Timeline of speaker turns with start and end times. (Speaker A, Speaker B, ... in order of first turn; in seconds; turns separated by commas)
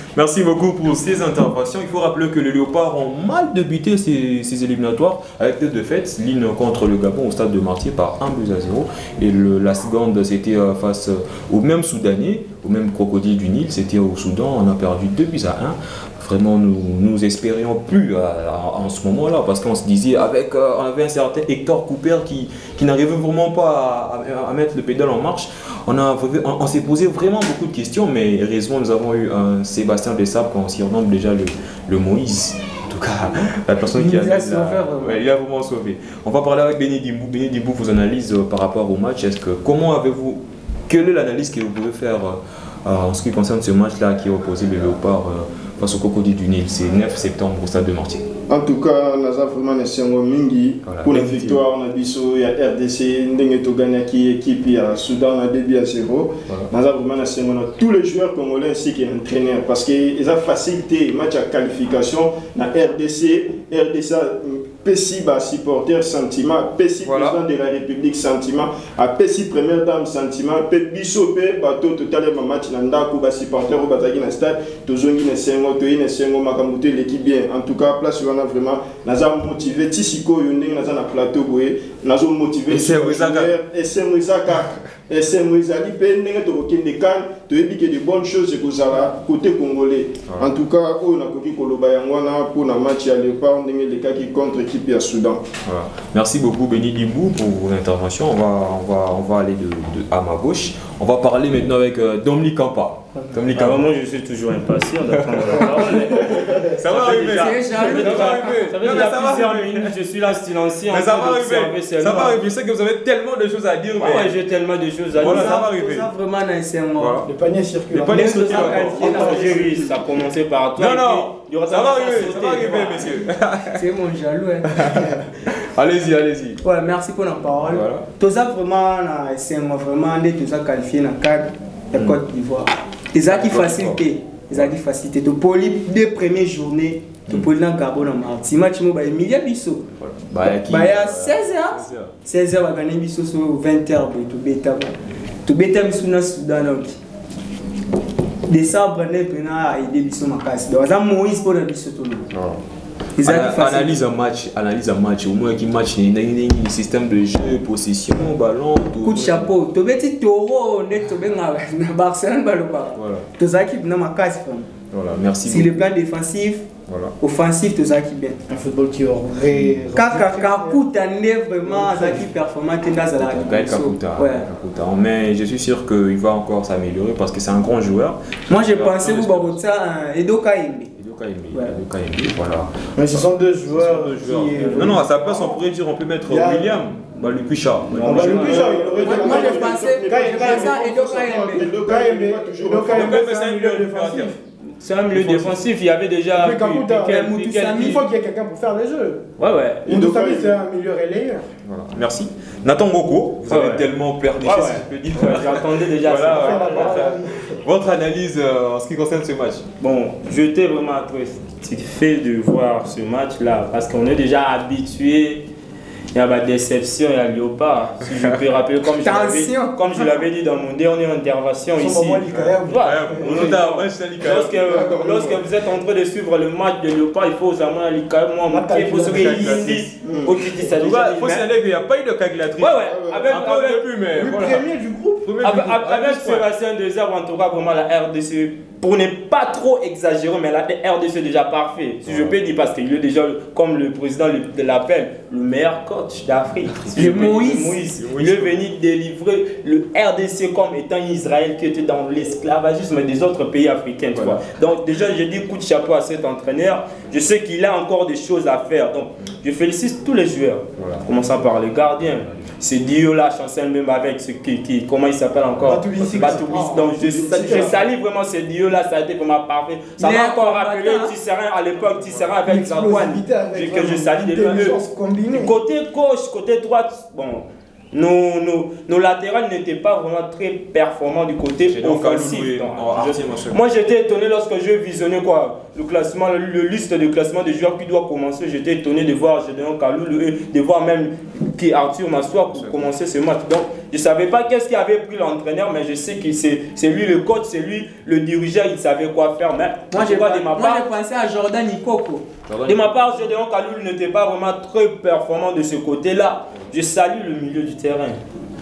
Speaker A: 0.1-48.3, Speaker B: 33.9-35.2, Speaker C: 48.5-95.4, Speaker A: 50.9-51.6, Speaker A: 67.0-67.4, Speaker A: 82.7-83.6, Speaker A: 95.7-103.8, Speaker D: 103.5-112.4, Speaker A: 105.1-110.0, Speaker B: 107.2-108.6, Speaker A: 110.9-114.4, Speaker D: 114.0-115.6, Speaker A: 115.2-116.1, Speaker B: 115.2-117.2, Speaker A: 117.0-117.3, Speaker E: 117.2-119.8, Speaker A: 117.9-119.4, Speaker B: 118.1-119.8, Speaker D: 118.1-123.2, Speaker A: 120.8-123.8, Speaker B: 122.4-125.1, Speaker A: 124.7-126.6, Speaker B: 126.6-139.8, Speaker A: 127.7-128.1, Speaker A: 131.9-132.2, Speaker A: 133.2-134.7, Speaker A: 140.0-142.1, Speaker B: 140.5-144.9, Speaker B: 145.5-147.0, Speaker B: 148.5-152.3, Speaker A: 152.3-152.6, Speaker B: 153.2-153.9, Speaker A: 153.2-159.5, Speaker B: 159.0-164.7, Speaker A: 162.9-163.3, Speaker A: 164.9-165.8, Speaker B: 165.4-166.7, Speaker A: 166.9-167.2, Speaker B: 167.2-168.4, Speaker E: 168.5-170.8, Speaker A: 169.5-169.8, Speaker B: 169.9-174.5, Speaker E: 171.6-172.3, Speaker A: 173.2-179.6, Speaker B: 178.5-180.9, Speaker A: 181.0-188.7, Speaker B: 181.5-181.8, Speaker E: 183.0-185.6, Speaker E: 186.3-186.8, Speaker D: 187.9-188.8, Speaker E: 188.1-194.4, Speaker C: 188.1-193.2, Speaker B: 189.0-191.7, Speaker A: 192.9-194.3, Speaker D: 194.8-198.0, Speaker A: 195.1-195.6, Speaker E: 196.3-199.3, Speaker B: 197.1-198.0, Speaker D: 199.4-199.9, Speaker E: 199.9-201.4, Speaker C: 199.9-200.6, Speaker A: 201.6-209.7, Speaker D: 203.5-203.9, Speaker D: 204.4-207.1, Speaker E: 206.3-207.6, Speaker D: 209.8-215.4, Speaker D: 216.1-231.5, Speaker A: 218.1-218.4, Speaker B: 219.0-220.2, Speaker E: 221.8-223.6, Speaker A: 222.3-224.8, Speaker C: 224.7-225.4, Speaker E: 228.5-229.7, Speaker A: 228.9-229.9, Speaker C: 230.0-230.4, Speaker A: 230.6-234.7, Speaker D: 232.6-233.9, Speaker C: 232.8-233.3, Speaker E: 234.2-235.3, Speaker A: 235.2-236.5, Speaker D: 235.4-300.9, Speaker A: 242.1-242.4, Speaker A: 246.7-247.4, Speaker B: 246.9-247.8, Speaker A: 248.0-248.6, Speaker A: 254.2-254.4, Speaker A: 260.8-261.1, Speaker A: 262.2-262.5, Speaker E: 265.6-267.8, Speaker C: 267.0-267.8, Speaker B: 270.0-271.1, Speaker A: 271.9-272.4, Speaker E: 272.4-275.5, Speaker A: 281.7-283.6, Speaker A: 292.5-292.8, Speaker B: 299.9-302.3, Speaker A: 302.5-302.9, Speaker D: 302.7-308.2